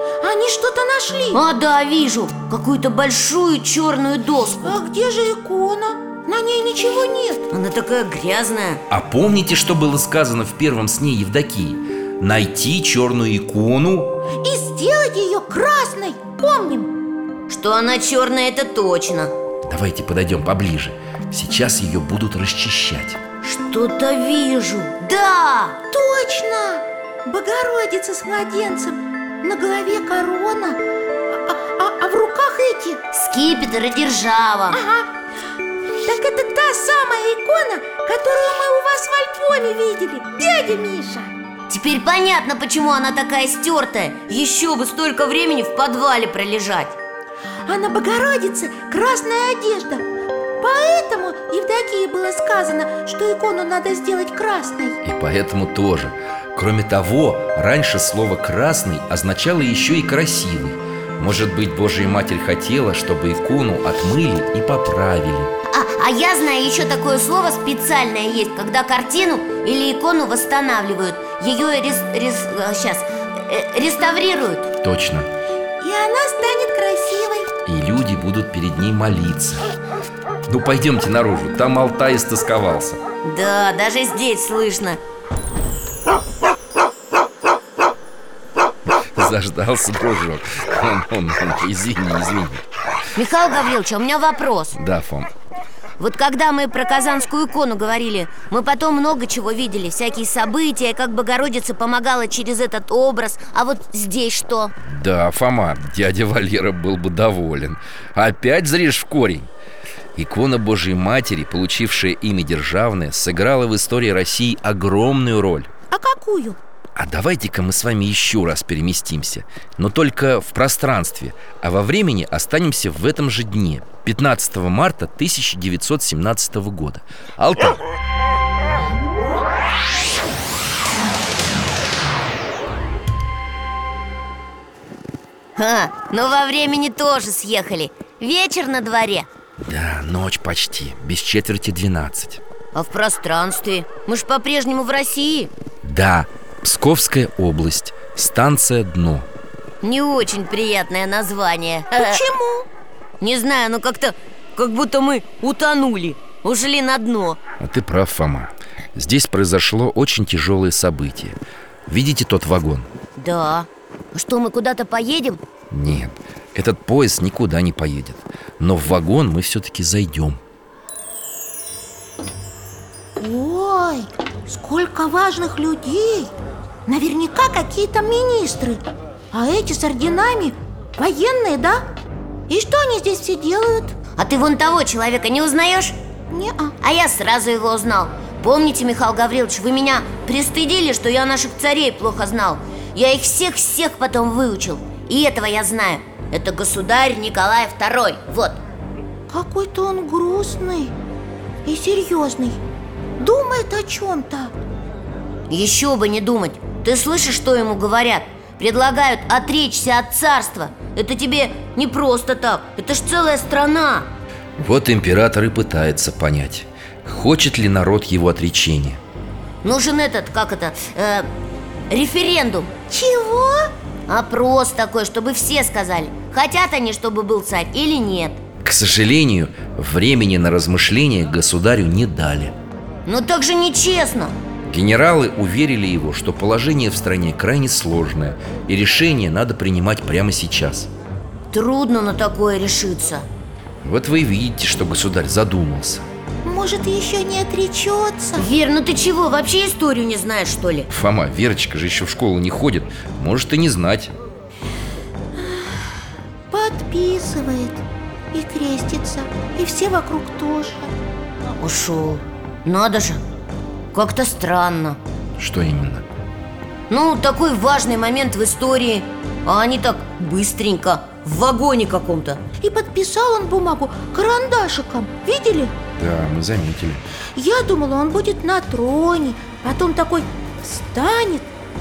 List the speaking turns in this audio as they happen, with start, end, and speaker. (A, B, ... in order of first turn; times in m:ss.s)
0:00.2-0:01.4 A
0:01.3-0:04.8 B
0:04.6-0:07.4 A
0:07.5-0:08.8 B
0:08.9-0:14.1 C
0:14.4-0:16.9 A
0:17.5-0:19.3 B
0:19.6-0:23.2 C
0:23.4-0:25.8 B
0:25.9-0:33.0 A
0:33.1-0:34.8 B
0:34.7-0:35.1 A
0:36.0-0:41.3 A
0:41.7-0:47.0 B
0:47.6-0:50.0 A
0:50.6-0:55.0 A
0:55.0-1:05.5 C
1:05.7-1:14.7 B
1:14.8-1:15.3 C
1:15.8-1:17.5 A
1:17.6-1:19.7 C
1:20.5-1:23.0 C
1:23.2-1:25.0 B
1:29.0-1:32.6 C
1:33.1-1:34.8 B
1:34.8-1:35.3 C
1:36.0-1:44.7 B
1:44.8-1:49.5 C
1:50.1-1:55.7 C
1:55.9-1:56.6 A
1:57.0-2:07.8 C
2:15.6-2:19.3 B
2:19.6-2:22.4 C
2:22.7-2:25.5 B
2:25.8-2:29.3 C
2:29.8-2:32.2 B
2:31.9-2:32.7 A
2:33.2-2:37.4 B
2:37.6-2:42.9 C
2:43.2-2:45.4 B
2:45.7-2:50.4 C
2:53.2-2:56.3 A
2:56.9-3:01.8 A
3:02.5-3:04.0 A
3:04.2-3:06.0 B
3:06.3-3:06.7 A
3:06.8-3:18.6 B
3:19.3-3:20.9 A
3:21.6-3:22.6 A
3:23.2-3:24.5 A
3:25.5-3:34.1 B
3:34.6-3:39.0 C
3:39.6-3:41.3 B
3:41.9-3:42.7 B
3:42.9-3:43.7 A
3:44.1-3:48.4 B
3:48.6-3:52.5 C
3:53.0-3:54.3 B
3:54.7-4:00.9 C
4:01.5-4:03.2 B
4:03.8-4:06.1 C
4:06.4-4:08.4 A
4:08.4-4:10.9 B
4:10.9-4:14.1 C
4:15.4-4:15.9 A
4:16.5-4:17.8 A
4:18.3-4:20.9 A
4:21.6-4:23.2 B
4:23.9-4:25.0 B
4:25.4-4:26.0 C
4:26.9-4:32.4 B
4:32.6-4:35.7 A
4:36.0-4:37.0 C
4:37.3-4:41.5 A